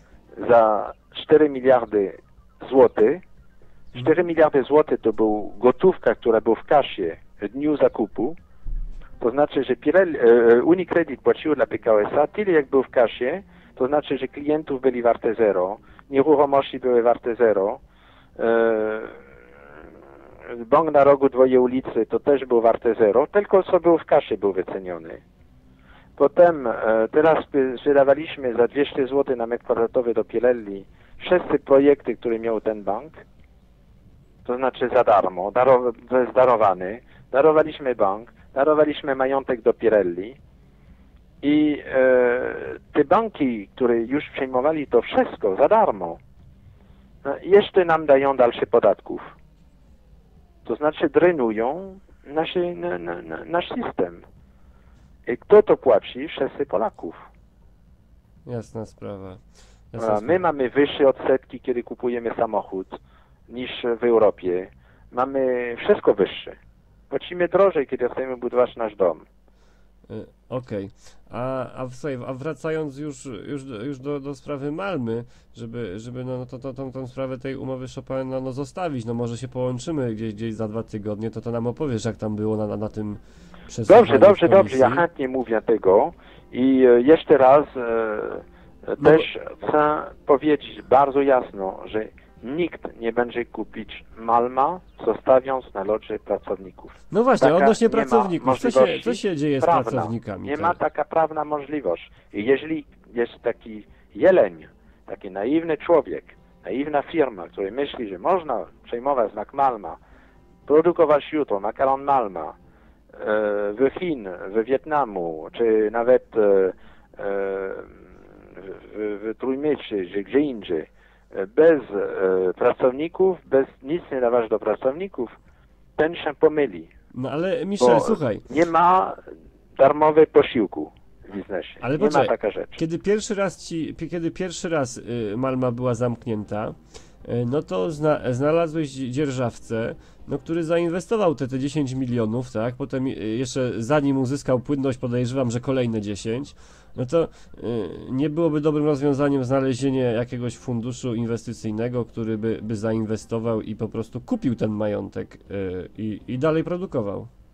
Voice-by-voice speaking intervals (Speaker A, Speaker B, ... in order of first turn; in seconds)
Speaker A: 0.4-3.2, 3.9-8.4, 9.2-17.8, 18.4-19.2, 20.5-25.2, 26.2-33.2, 34.4-40.4, 41.4-46.2, 47.2-49.3, 50.6-54.2, 55.3-57.2, 60.0-66.6, 67.1-69.2, 83.9-110.0, 110.7-112.5, 113.2-118.0, 118.6-125.3, 126.0-126.9, 127.8-129.2, 129.8-132.8
Speaker B: 58.5-60.4, 70.1-85.0, 89.0-89.2, 97.1-100.8, 127.1-128.4, 131.8-157.3